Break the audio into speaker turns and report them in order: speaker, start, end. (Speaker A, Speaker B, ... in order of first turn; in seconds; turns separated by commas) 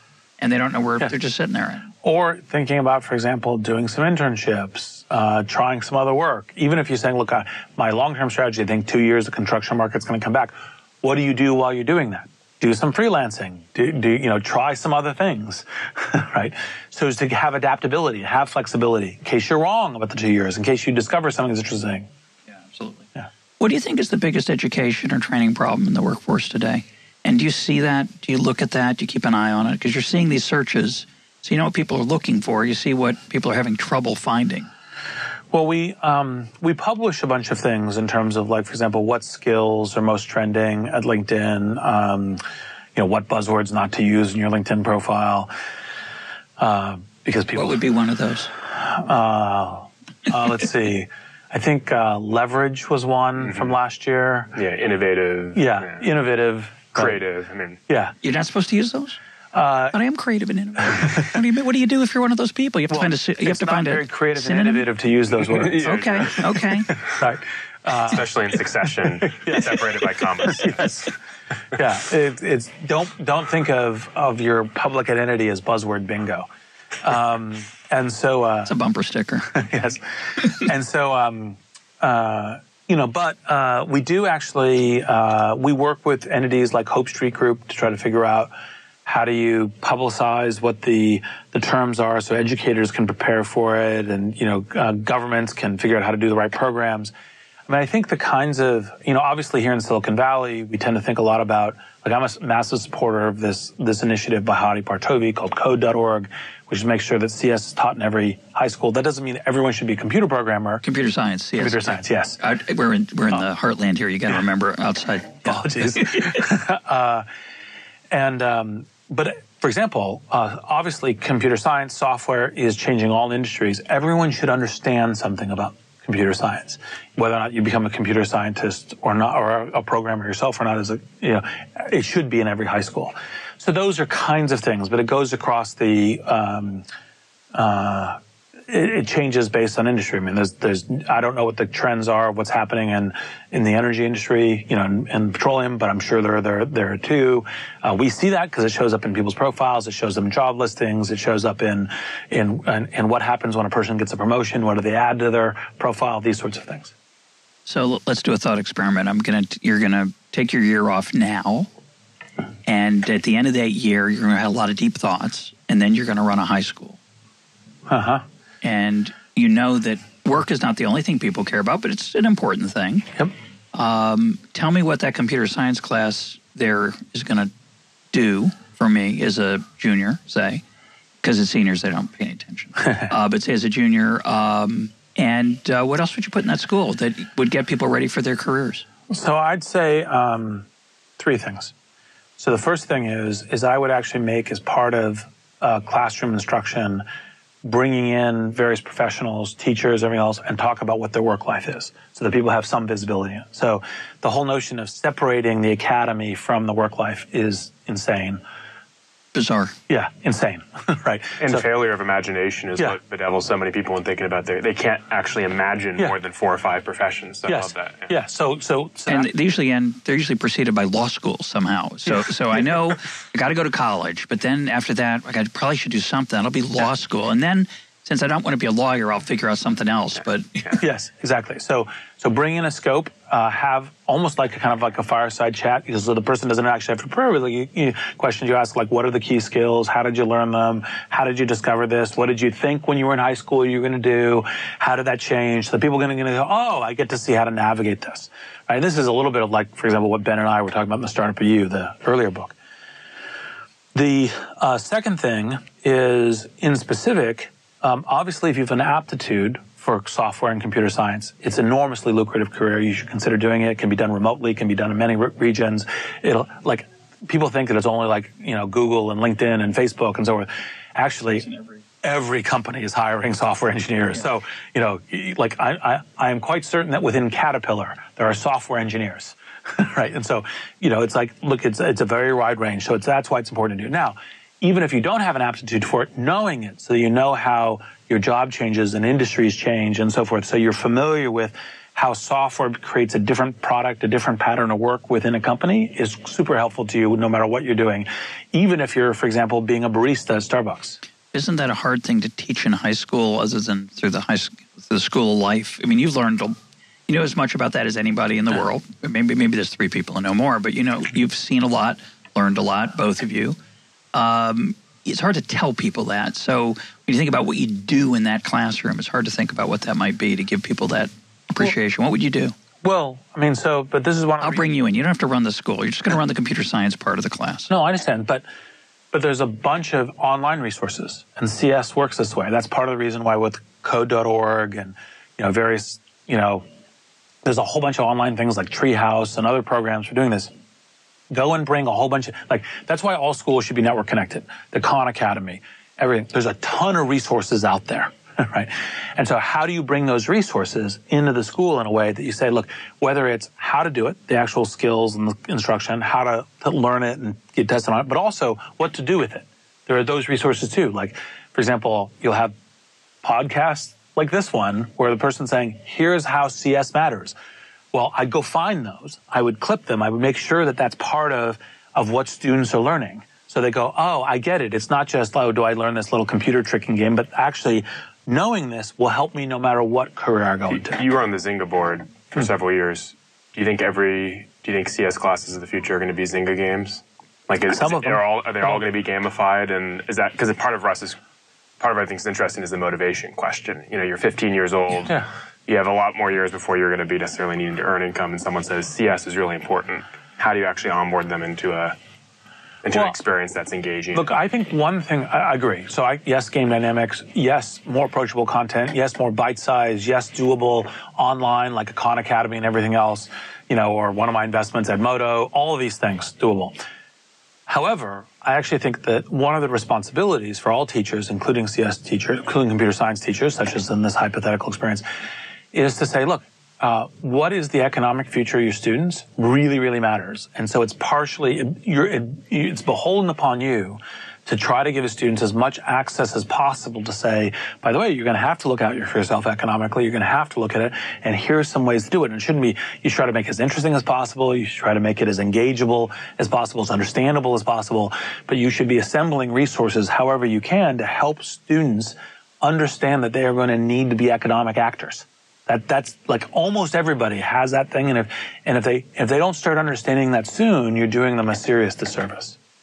Speaker A: 0.4-1.9, Speaker B: 2.0-22.1, Speaker A: 22.5-23.1, Speaker A: 23.6-34.7, Speaker B: 35.5-42.4, Speaker B: 42.9-45.5, Speaker B: 46.6-47.8, Speaker A: 47.5-48.5, Speaker B: 48.7-54.5, Speaker C: 54.5-56.0, Speaker B: 55.5-57.2, Speaker C: 56.9-57.8, Speaker B: 57.9-58.1, Speaker A: 58.2-59.2, Speaker B: 59.5-60.0, Speaker A: 59.9-64.8, Speaker B: 62.9-65.9, Speaker C: 65.4-66.7, Speaker A: 65.8-66.9, Speaker B: 67.1-68.2, Speaker C: 68.0-71.1, Speaker B: 69.2-69.9, Speaker B: 70.4-70.9, Speaker B: 71.7-76.5, Speaker B: 77.0-78.7, Speaker A: 78.7-79.5, Speaker B: 79.5-88.5, Speaker B: 89.0-97.1, Speaker B: 97.7-110.8, Speaker A: 110.8-116.3, Speaker B: 111.6-112.4, Speaker B: 115.5-117.2, Speaker B: 118.1-136.8, Speaker B: 137.5-156.9, Speaker A: 157.7-161.7, Speaker A: 162.7-167.0, Speaker B: 167.9-168.2, Speaker A: 168.6-173.1, Speaker A: 173.7-177.5, Speaker A: 178.1-180.6, Speaker A: 181.2-188.8, Speaker B: 189.1-190.7, Speaker B: 191.2-191.7, Speaker B: 192.4-197.0, Speaker B: 197.6-208.4, Speaker A: 209.3-209.7, Speaker B: 209.9-211.6, Speaker C: 211.4-218.1, Speaker B: 217.4-219.3, Speaker A: 219.1-230.8, Speaker B: 230.8-252.5, Speaker B: 253.9-301.0, Speaker A: 301.3-306.6, Speaker A: 307.1-313.6, Speaker A: 314.1-322.5, Speaker B: 322.8-324.6, Speaker A: 324.4-327.7, Speaker B: 327.7-328.4, Speaker B: 329.1-336.6, Speaker B: 337.4-340.5, Speaker B: 341.3-362.5, Speaker B: 363.2-367.3, Speaker B: 367.9-381.0, Speaker C: 380.7-391.2, Speaker B: 387.7-388.8, Speaker C: 391.8-401.9, Speaker C: 402.8-404.3, Speaker B: 404.1-416.8, Speaker B: 417.7-425.0, Speaker B: 425.7-462.6